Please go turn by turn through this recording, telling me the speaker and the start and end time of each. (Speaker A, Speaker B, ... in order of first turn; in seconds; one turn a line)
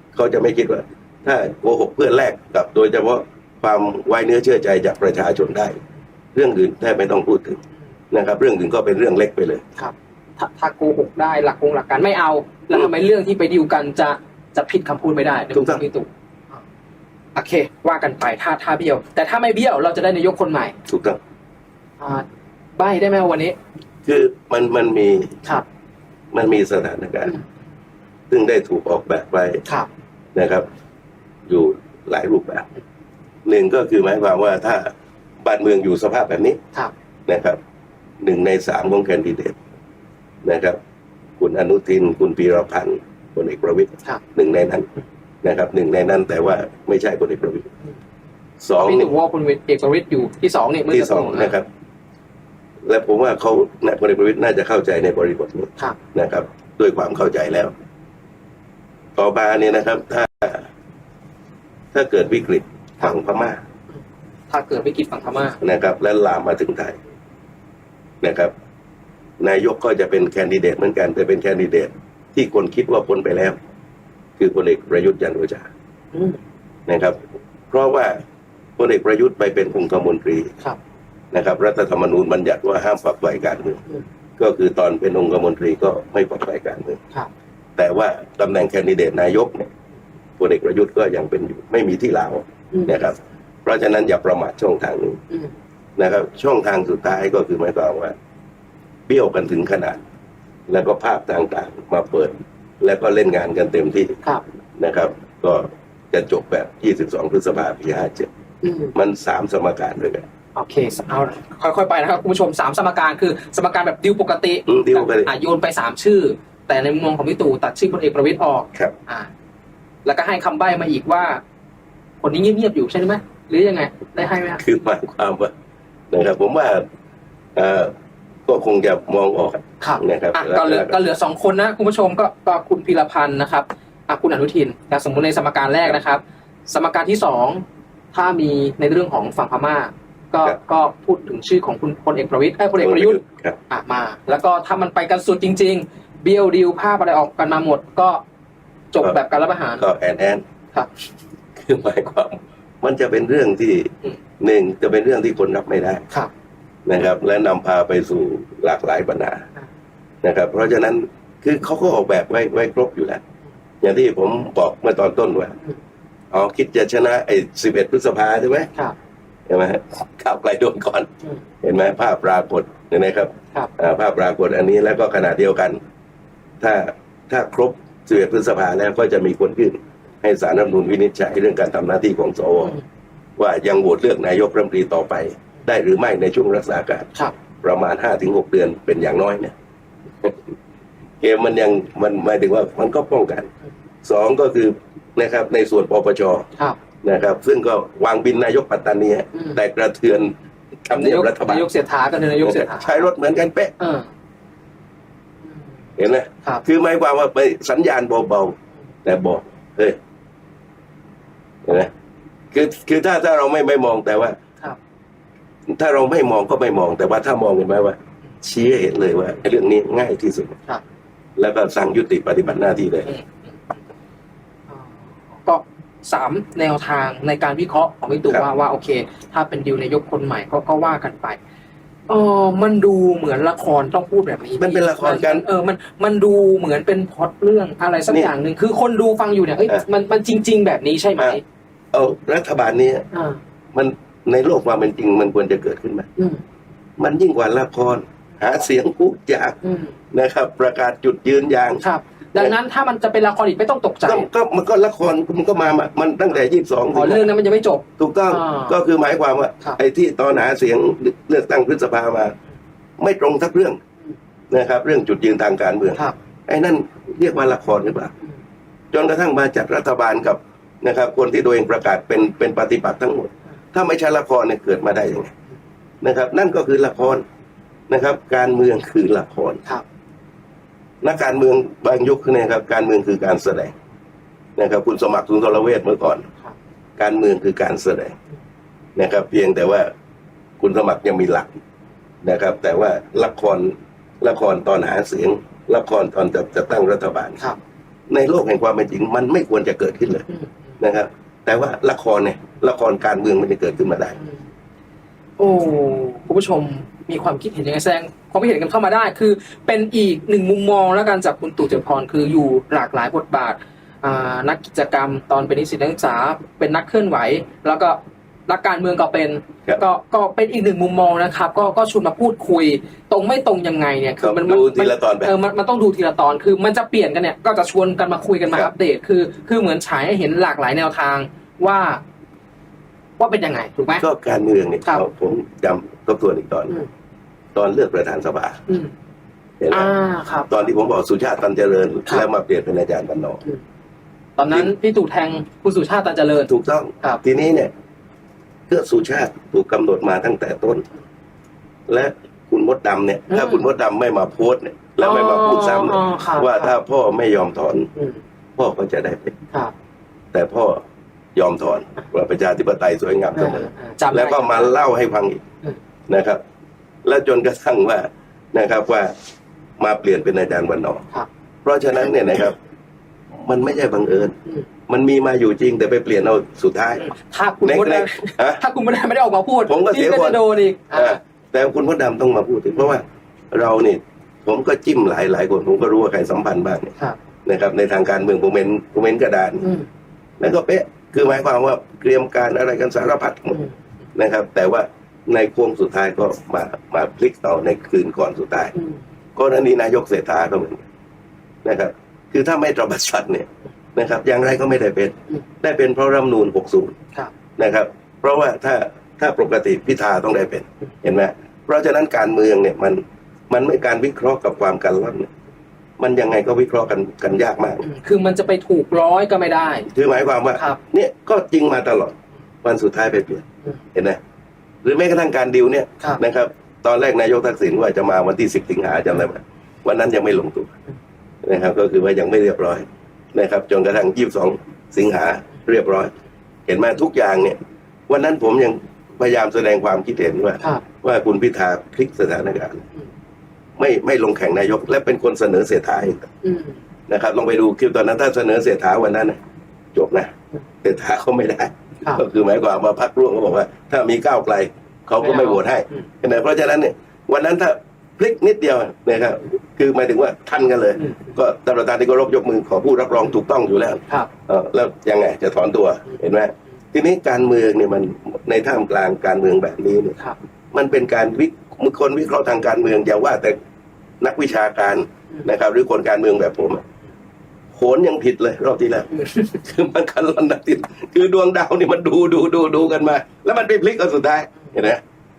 Speaker A: 0.1-5.8
Speaker A: 6.3-9.6
Speaker B: 9.8-16.1
Speaker A: 15.5-15.8
Speaker B: 17.3-20.8
Speaker A: 20.9-21.2
Speaker B: 22.0-23.6
Speaker A: 24.0-25.4
Speaker A: 26.3-27.3
Speaker A: 28.3-29.6
Speaker A: 30.3-30.6
Speaker A: 31.5-32.6
Speaker A: 33.4-36.6
Speaker A: 37.3-37.6
Speaker A: 38.2-39.5
Speaker A: 40.4-40.8
Speaker A: 41.4-44.9
Speaker A: 45.4-47.7
Speaker A: 48.6-49.1
Speaker B: 48.8-51.5
Speaker A: 50.9-51.7
Speaker A: 52.8-57.7
Speaker A: 59.1-60.7
Speaker A: 61.9-63.6
Speaker B: 64.5-65.6
Speaker A: 65.6-67.0
Speaker A: 68.2-68.5
Speaker A: 69.4-73.6
Speaker A: 74.4-75.7
Speaker B: 76.1-76.4
Speaker A: 76.9-78.2
Speaker A: 78.8-80.5
Speaker A: 81.3-83.8
Speaker A: 84.4-87.0
Speaker A: 87.8-89.7
Speaker A: 90.4-95.2
Speaker A: 96.0-98.1
Speaker A: 99.1-100.0
Speaker A: 100.7-104.2
Speaker A: 104.8-108.3
Speaker B: 108.6-108.9
Speaker A: 108.9-110.2
Speaker B: 110.5-119.3
Speaker A: 114.7-115.3
Speaker B: 120.0-121.4
Speaker B: 122.2-124.6
Speaker A: 124.6-125.5
Speaker A: 126.1-126.8
Speaker A: 127.5-127.9
Speaker A: 128.5-130.9
Speaker B: 129.8-148.2
Speaker A: 142.8-143.6
Speaker B: 148.9-149.8
Speaker A: 149.8-150.4
Speaker A: 151.6-156.0
Speaker A: 156.8-159.4
Speaker A: 160.2-163.2
Speaker A: 163.8-165.6
Speaker A: 166.3-168.7
Speaker A: 169.5-171.1
Speaker A: 171.6-175.8
Speaker A: 176.6-182.8
Speaker A: 183.4-187.1
Speaker A: 187.6-189.5
Speaker A: 191.2-193.5
Speaker A: 194.0-196.5
Speaker A: 197.0-200.3
Speaker A: 200.8-201.7
Speaker B: 200.9-203.1
Speaker A: 202.4-203.7
Speaker B: 203.8-204.1
Speaker A: 206.0-210.0
Speaker A: 211.6-211.9
Speaker A: 212.5-214.4
Speaker A: 215.7-220.6
Speaker A: 221.4-223.1
Speaker B: 225.4-231.4
Speaker B: 232.1-241.4
Speaker A: 234.6-235.4
Speaker A: 241.9-243.0
Speaker B: 243.1-243.4
Speaker A: 243.7-246.1
Speaker A: 247.0-249.6
Speaker B: 249.6-249.9
Speaker A: 250.1-251.8
Speaker B: 251.8-254.3
Speaker A: 254.1-257.3
Speaker B: 256.9-258.8
Speaker A: 258.0-262.3
Speaker A: 263.0-263.8
Speaker A: 264.5-268.1
Speaker A: 268.9-275.3
Speaker A: 276.0-277.2
Speaker A: 277.9-279.6
Speaker A: 281.0-283.7
Speaker A: 284.6-286.3
Speaker A: 287.0-288.1
Speaker A: 288.9-289.9
Speaker A: 290.6-291.5
Speaker A: 292.2-297.4
Speaker A: 298.1-300.2
Speaker A: 300.8-304.2
Speaker B: 305.4-332.0
Speaker A: 324.2-325.3
Speaker B: 333.2-334.0
Speaker A: 334.0-336.8
Speaker A: 337.5-338.6
Speaker A: 339.6-339.9
Speaker B: 339.7-340.6
Speaker A: 340.5-343.4
Speaker B: 344.4-346.5
Speaker A: 346.5-347.7
Speaker A: 348.7-350.8
Speaker A: 351.9-357.9
Speaker B: 353.3-353.6
Speaker B: 355.0-356.7
Speaker A: 358.6-359.4
Speaker A: 360.3-360.8
Speaker A: 361.3-365.4
Speaker B: 363.3-364.7
Speaker A: 366.1-366.4
Speaker A: 367.0-369.1
Speaker A: 369.8-371.0
Speaker A: 371.6-372.6
Speaker A: 373.3-374.4
Speaker A: 374.9-377.1
Speaker B: 377.0-381.2
Speaker A: 377.6-378.6
Speaker A: 379.7-386.9
Speaker A: 387.4-389.7
Speaker A: 390.4-393.6
Speaker A: 394.1-398.7
Speaker A: 399.4-400.8
Speaker A: 401.6-406.9
Speaker A: 407.6-415.3
Speaker A: 416.0-417.9
Speaker B: 417.8-419.9
Speaker A: 419.9-424.2
Speaker A: 424.8-430.7
Speaker A: 431.4-436.1
Speaker A: 436.7-442.8
Speaker A: 443.8-446.3
Speaker B: 446.4-446.7
Speaker A: 447.1-449.4
Speaker A: 449.9-470.2
Speaker B: 455.2-455.6
Speaker B: 461.0-461.3
Speaker A: 470.7-473.6
Speaker A: 474.2-476.8
Speaker A: 477.7-485.0